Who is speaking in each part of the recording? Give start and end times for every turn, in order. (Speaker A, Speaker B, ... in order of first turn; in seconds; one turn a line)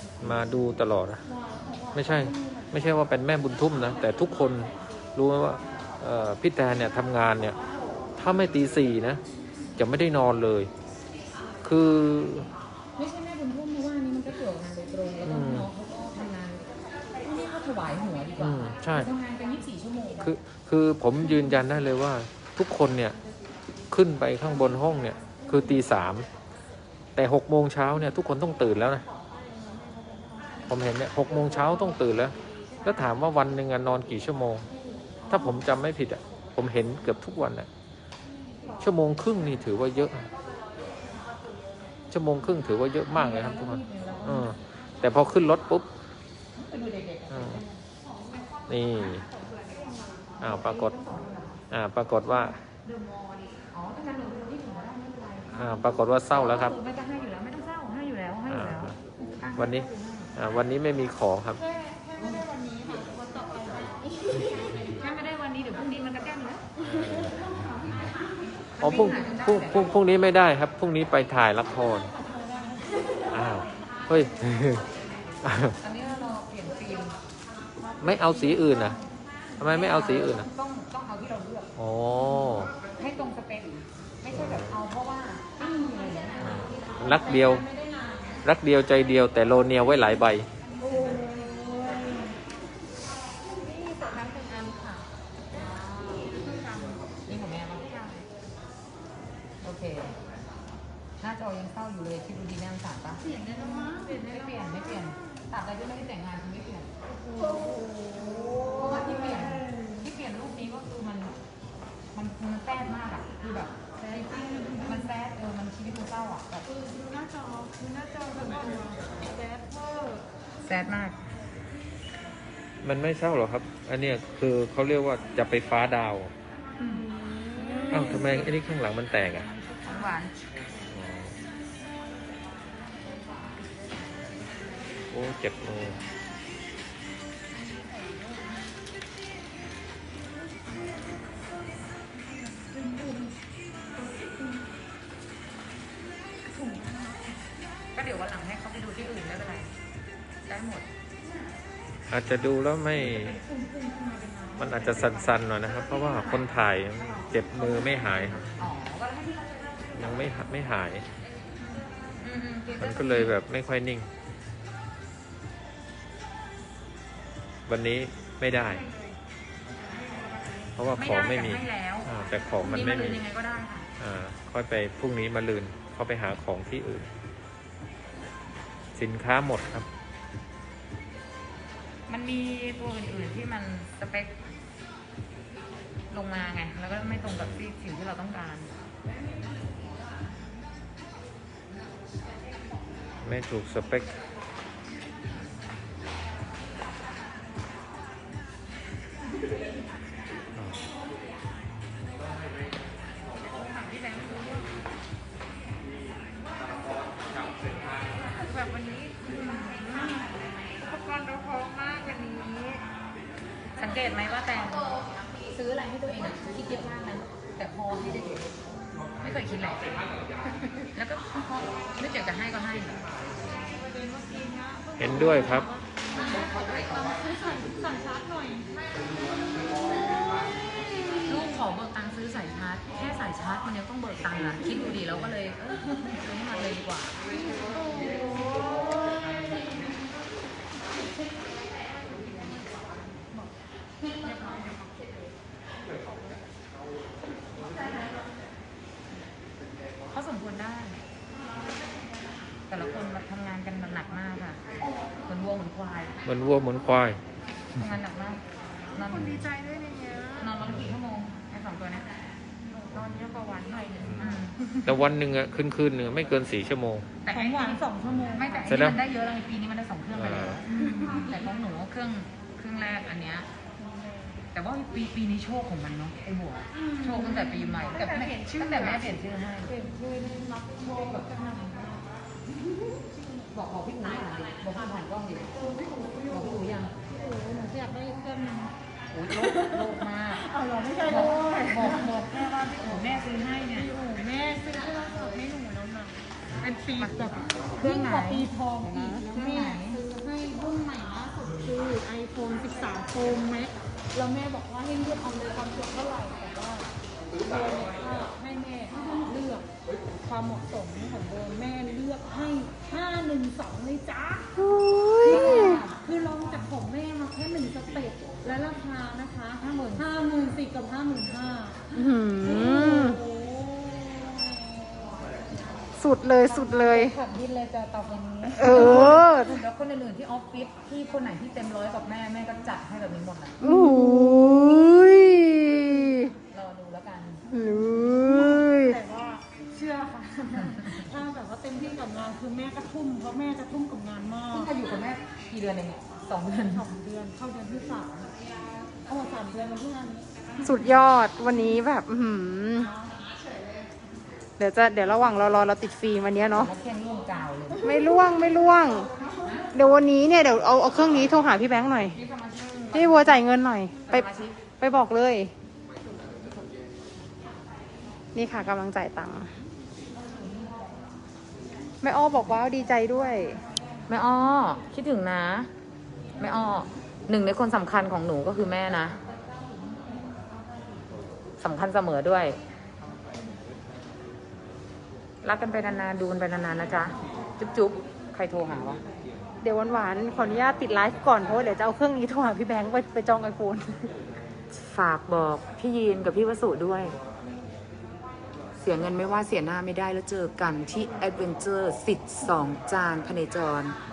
Speaker A: 0.2-1.2
Speaker B: 1.3-3.0
Speaker A: 1.9-7.6
Speaker A: 8.2-9.2
Speaker A: 9.8-10.7
Speaker A: 11.6-12.5
Speaker C: 12.9-16.6
Speaker A: 15.2-15.7
Speaker C: 17.2-20.3
Speaker A: 18.4-19.1
Speaker A: 20.2-23.2
Speaker A: 23.9-26.3
Speaker A: 27.1-29.0
Speaker B: 29.0-30.8
Speaker A: 30.7-34.7
Speaker B: 31.5-32.9
Speaker B: 35.2-35.6
Speaker A: 35.3-37.7
Speaker A: 38.8-40.3
Speaker B: 41.2-41.9
Speaker A: 42.1-45.9
Speaker C: 43.1-44.5
Speaker C: 46.5-47.8
Speaker A: 47.3-47.6
Speaker A: 48.7-49.2
Speaker B: 48.9-50.4
Speaker A: 50.4-51.0
Speaker C: 50.4-51.6
Speaker A: 51.7-52.6
Speaker C: 53.7-60.3
Speaker A: 55.5-56.8
Speaker A: 58.5-58.9
Speaker A: 59.5-61.6
Speaker B: 61.5-64.6
Speaker C: 64.9-66.7
Speaker A: 66.8-68.1
Speaker C: 68.8-69.9
Speaker A: 68.8-72.1
Speaker B: 72.1-73.7
Speaker A: 73.3-74.9
Speaker A: 75.4-75.8
Speaker C: 75.8-77.1
Speaker B: 78.0-79.0
Speaker A: 78.0-79.0
Speaker A: 79.6-80.5
Speaker C: 79.7-81.7
Speaker A: 81.8-82.7
Speaker C: 82.9-85.5
Speaker A: 84.3-84.8
Speaker B: 85.6-88.4
Speaker A: 86.4-87.6
Speaker A: 88.4-90.5
Speaker B: 90.8-92.4
Speaker C: 94.4-94.8
Speaker B: 95.5-97.0
Speaker C: 97.2-97.9
Speaker C: 99.6-100.2
Speaker C: 101.2-103.2
Speaker D: 103.2-104.1
Speaker B: 103.5-104.8
Speaker C: 104.0-106.9
Speaker B: 107.2-109.8
Speaker D: 107.3-109.7
Speaker C: 108.7-111.3
Speaker C: 112.1-113.8
Speaker B: 114.0-115.1
Speaker C: 114.8-116.7
Speaker B: 116.8-120.2
Speaker C: 120.6-121.2
Speaker A: 122.8-126.3
Speaker D: 127.2-127.9
Speaker B: 127.3-128.5
Speaker A: 127.9-129.5
Speaker B: 129.4-130.2
Speaker C: 129.8-130.4
Speaker A: 130.9-131.4
Speaker A: 135.1-136.0
Speaker B: 137.5-138.7
Speaker B: 140.5-141.3
Speaker B: 142.1-143.4
Speaker B: 143.9-144.7
Speaker B: 146.5-147.4
Speaker C: 147.9-149.7
Speaker C: 150.5-150.8
Speaker A: 152.1-153.3
Speaker B: 153.0-158.5
Speaker A: 154.6-158.5
Speaker C: 158.6-160.1
Speaker A: 159.9-161.1
Speaker B: 161.7-162.1
Speaker C: 162.2-163.4
Speaker A: 162.8-164.1
Speaker A: 167.7-168.8
Speaker B: 168.7-169.0
Speaker B: 169.8-170.7
Speaker A: 170.8-173.2
Speaker C: 171.0-173.9
Speaker A: 174.0-177.1
Speaker A: 178.9-179.9
Speaker C: 182.1-184.3
Speaker C: 186.1-188.7
Speaker A: 187.0-187.6
Speaker A: 193.2-194.1
Speaker A: 200.6-200.9
Speaker B: 203.6-204.7
Speaker D: 208.8-210.1
Speaker B: 210.0-210.2
Speaker D: 210.8-212.8
Speaker C: 213.8-218.4
Speaker C: 219.2-219.9
Speaker C: 220.9-223.0
Speaker B: 223.6-229.1
Speaker A: 225.0-225.7
Speaker C: 226.1-227.2
Speaker C: 231.2-237.2
Speaker B: 237.5-239.6
Speaker B: 241.7-243.5
Speaker B: 244.0-245.1
Speaker B: 246.0-246.5
Speaker C: 250.1-251.0
Speaker C: 252.7-254.6
Speaker C: 255.2-256.1
Speaker A: 256.2-257.2
Speaker C: 257.8-258.4
Speaker C: 258.9-259.3
Speaker D: 259.1-260.5
Speaker B: 259.9-260.3
Speaker C: 260.4-262.1
Speaker A: 260.6-260.9
Speaker B: 262.6-264.8
Speaker C: 264.1-264.6
Speaker A: 264.9-267.1
Speaker C: 267.2-273.5
Speaker B: 267.3-268.8
Speaker A: 268.1-269.0
Speaker A: 270.1-270.6
Speaker B: 270.7-271.5
Speaker B: 273.8-274.4
Speaker C: 274.5-279.7
Speaker D: 276.7-277.2
Speaker B: 277.1-279.0
Speaker B: 279.6-282.1
Speaker C: 283.5-285.5
Speaker B: 285.5-288.7
Speaker C: 286.3-286.9
Speaker C: 289.1-290.4
Speaker B: 289.3-306.9
Speaker C: 291.0-293.9
Speaker C: 297.0-300.0
Speaker B: 307.4-309.7
Speaker B: 310.2-314.6
Speaker D: 314.6-315.8
Speaker B: 315.2-321.8
Speaker C: 315.2-315.9
Speaker C: 319.6-320.1
Speaker D: 321.9-323.2
Speaker B: 322.4-325.1
Speaker D: 326.0-327.1
Speaker C: 326.5-333.6
Speaker D: 328.6-329.6
Speaker B: 328.7-329.2
Speaker D: 333.6-336.3
Speaker C: 336.5-337.4
Speaker D: 337.5-339.0
Speaker B: 337.9-344.7
Speaker C: 344.5-346.9
Speaker B: 346.7-348.3
Speaker B: 349.1-350.3
Speaker D: 350.6-352.9
Speaker B: 352.8-353.1
Speaker D: 354.6-356.7
Speaker C: 356.5-357.9
Speaker D: 357.8-359.1
Speaker D: 359.7-362.2
Speaker C: 362.1-363.5
Speaker D: 362.9-364.2
Speaker C: 364.1-364.6
Speaker D: 364.8-365.5
Speaker D: 368.3-369.5
Speaker C: 370.4-370.9
Speaker D: 372.0-373.6
Speaker C: 374.1-375.7
Speaker C: 376.4-379.2
Speaker B: 379.3-380.5
Speaker C: 381.6-382.6
Speaker C: 385.4-389.0
Speaker D: 389.6-394.0
Speaker B: 390.7-391.4
Speaker C: 394.7-397.1
Speaker C: 398.8-404.0